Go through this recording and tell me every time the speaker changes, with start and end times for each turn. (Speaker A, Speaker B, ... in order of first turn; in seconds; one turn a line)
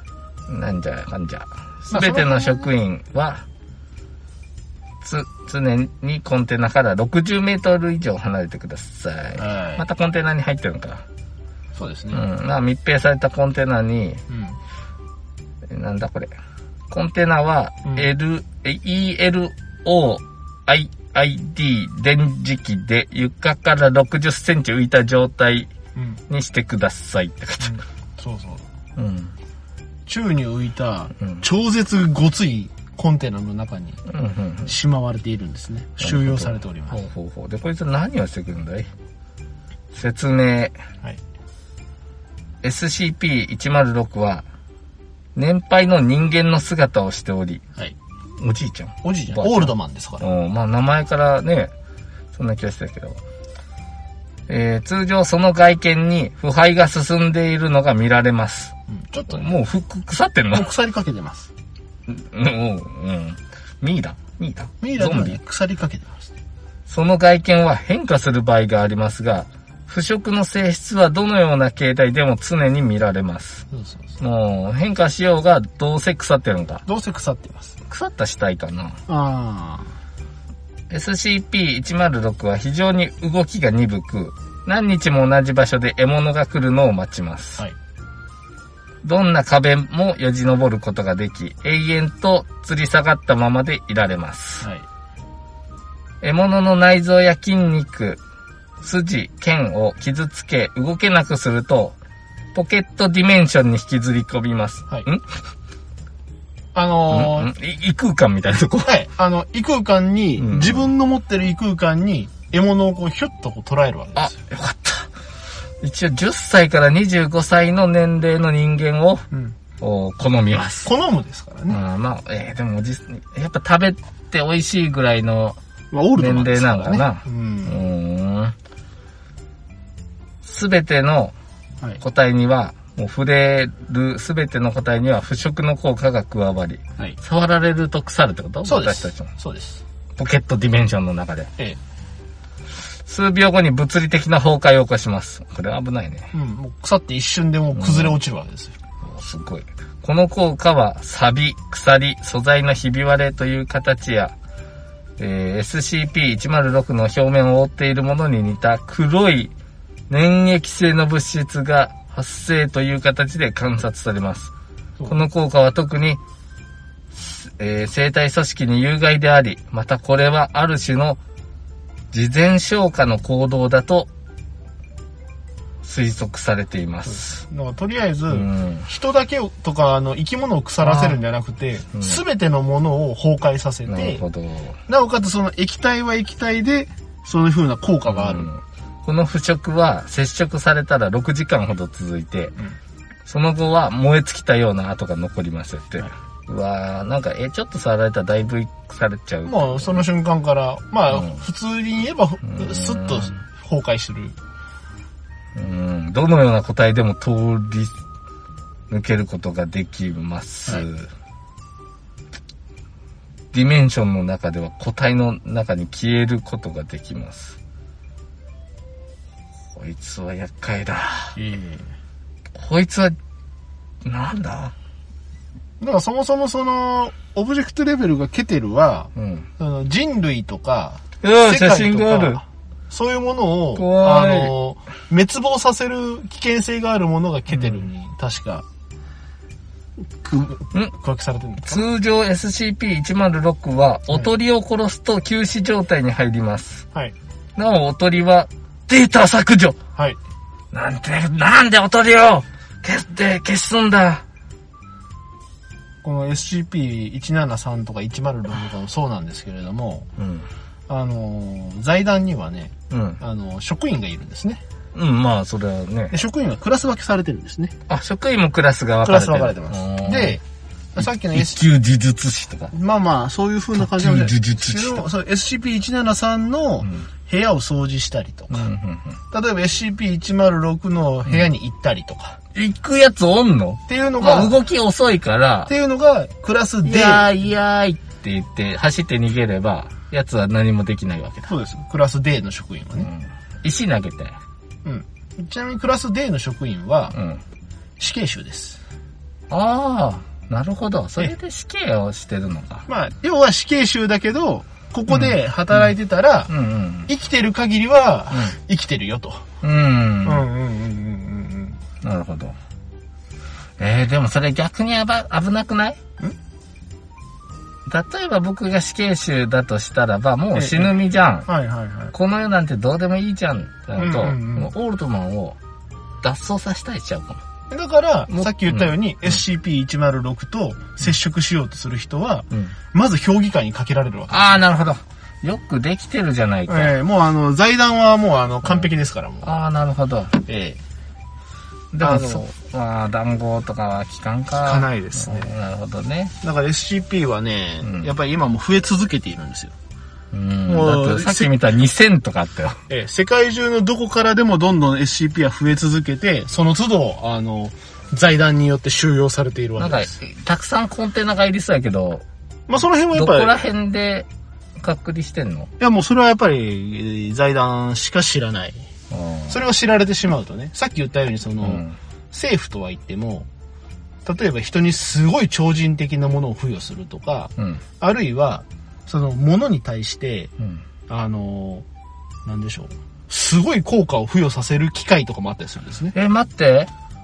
Speaker A: 0.5-3.5
Speaker B: 1.9-2.7
Speaker A: 5.0-11.0
Speaker B: 9.4-9.8
Speaker B: 11.8-12.2
Speaker A: 12.1-14.2
Speaker B: 14.3-14.6
Speaker A: 15.7-16.3
Speaker A: 16.9-25.7
Speaker B: 26.0-26.2
Speaker A: 26.3-27.8
Speaker B: 27.6-28.6
Speaker A: 29.0-29.3
Speaker B: 30.1-34.0
Speaker A: 31.2-31.4
Speaker A: 34.1-34.7
Speaker B: 34.7-37.0
Speaker A: 36.0-38.9
Speaker A: 39.9-40.8
Speaker A: 42.6-44.4
Speaker A: 45.4-47.6
Speaker A: 48.4-51.7
Speaker B: 49.0-50.3
Speaker A: 52.3-53.2
Speaker A: 54.5-58.7
Speaker B: 58.9-59.6
Speaker A: 59.3-60.7
Speaker B: 60.5-61.5
Speaker A: 62.1-65.4
Speaker B: 64.8-66.3
Speaker A: 66.9-73.7
Speaker B: 73.7-74.0
Speaker A: 74.2-76.8
Speaker B: 76.9-77.8
Speaker A: 77.9-79.0
Speaker B: 79.1-79.9
Speaker A: 80.9-87.6
Speaker A: 89.0-94.7
Speaker A: 96.2-98.2
Speaker A: 98.8-102.0
Speaker A: 102.5-105.3
Speaker B: 106.7-107.5
Speaker A: 107.1-108.9
Speaker B: 108.9-114.3
Speaker A: 110.4-110.9
Speaker A: 114.2-115.1
Speaker A: 115.8-119.3
Speaker B: 119.3-119.6
Speaker A: 119.8-120.9
Speaker B: 120.8-121.8
Speaker A: 121.7-125.6
Speaker B: 125.9-127.8
Speaker A: 126.2-128.6
Speaker A: 130.4-131.3
Speaker A: 132.0-139.3
Speaker B: 138.6-139.8
Speaker A: 140.2-141.5
Speaker A: 143.1-146.3
Speaker B: 146.3-148.8
Speaker A: 147.8-148.2
Speaker A: 149.0-154.3
Speaker A: 155.2-159.5
Speaker A: 160.1-164.5
Speaker A: 165.1-166.2
Speaker A: 167.1-171.2
Speaker A: 172.1-174.1
Speaker A: 175.8-177.4
Speaker B: 177.1-184.2
Speaker A: 178.3-178.9
Speaker A: 180.8-181.2
Speaker A: 181.9-182.2
Speaker A: 183.9-184.8
Speaker B: 184.9-188.5
Speaker A: 188.1-192.6
Speaker A: 193.3-200.1
Speaker B: 199.4-204.4
Speaker A: 201.1-201.4
Speaker A: 202.4-203.4
Speaker A: 205.6-208.0
Speaker A: 208.9-211.1
Speaker A: 213.5-217.6
Speaker A: 219.8-221.4
Speaker B: 221.4-221.9
Speaker A: 222.6-223.2
Speaker A: 224.0-224.8
Speaker B: 225.8-238.6
Speaker A: 229.1-229.5
Speaker A: 231.2-232.4
Speaker A: 233.8-234.5
Speaker A: 237.5-237.8
Speaker B: 240.2-241.9
Speaker A: 241.6-246.9
Speaker A: 247.6-249.8
Speaker A: 250.7-254.2
Speaker B: 256.0-260.1
Speaker A: 260.2-260.5
Speaker B: 260.9-264.6
Speaker A: 262.9-263.2
Speaker A: 264.9-266.2
Speaker B: 266.1-267.8
Speaker A: 267.9-270.4
Speaker B: 269.0-270.4
Speaker B: 270.9-271.6
Speaker A: 271.0-272.7
Speaker B: 272.7-278.7
Speaker A: 273.8-275.1
Speaker A: 278.5-279.2
Speaker B: 279.3-282.4
Speaker A: 282.6-285.7
Speaker B: 283.9-284.6
Speaker B: 285.7-287.3
Speaker A: 286.8-291.5
Speaker B: 291.5-293.1
Speaker A: 293.0-294.4
Speaker B: 294.9-297.2
Speaker A: 297.1-297.4
Speaker B: 298.0-298.8
Speaker A: 299.5-302.9
Speaker B: 302.9-306.5
Speaker A: 305.1-305.9
Speaker A: 306.5-307.1
Speaker B: 307.1-309.5
Speaker A: 309.6-310.5
Speaker B: 310.2-311.8
Speaker A: 312.0-312.6
Speaker A: 313.8-316.0
Speaker A: 317.9-321.5
Speaker B: 320.6-320.9
Speaker B: 321.5-322.1
Speaker A: 322.1-325.6
Speaker B: 324.0-324.7
Speaker A: 326.2-327.4
Speaker B: 327.7-334.6
Speaker A: 328.3-328.9
Speaker A: 334.3-336.9
Speaker B: 336.7-339.5
Speaker A: 339.4-340.4
Speaker B: 340.4-340.8
Speaker A: 341.9-346.3
Speaker B: 342.0-342.5
Speaker B: 344.6-345.5
Speaker B: 346.4-349.7
Speaker A: 347.8-348.1
Speaker A: 350.3-352.8
Speaker B: 350.7-351.5
Speaker B: 352.9-360.1
Speaker A: 359.8-362.2
Speaker B: 362.7-363.6
Speaker A: 363.1-364.3
Speaker A: 364.8-365.7
Speaker B: 365.8-368.8
Speaker A: 369.1-369.6
Speaker B: 369.5-373.5
Speaker A: 371.6-372.0
Speaker B: 374.2-380.5
Speaker A: 377.6-377.8
Speaker B: 381.1-381.9
Speaker B: 382.4-386.1
Speaker A: 386.1-386.9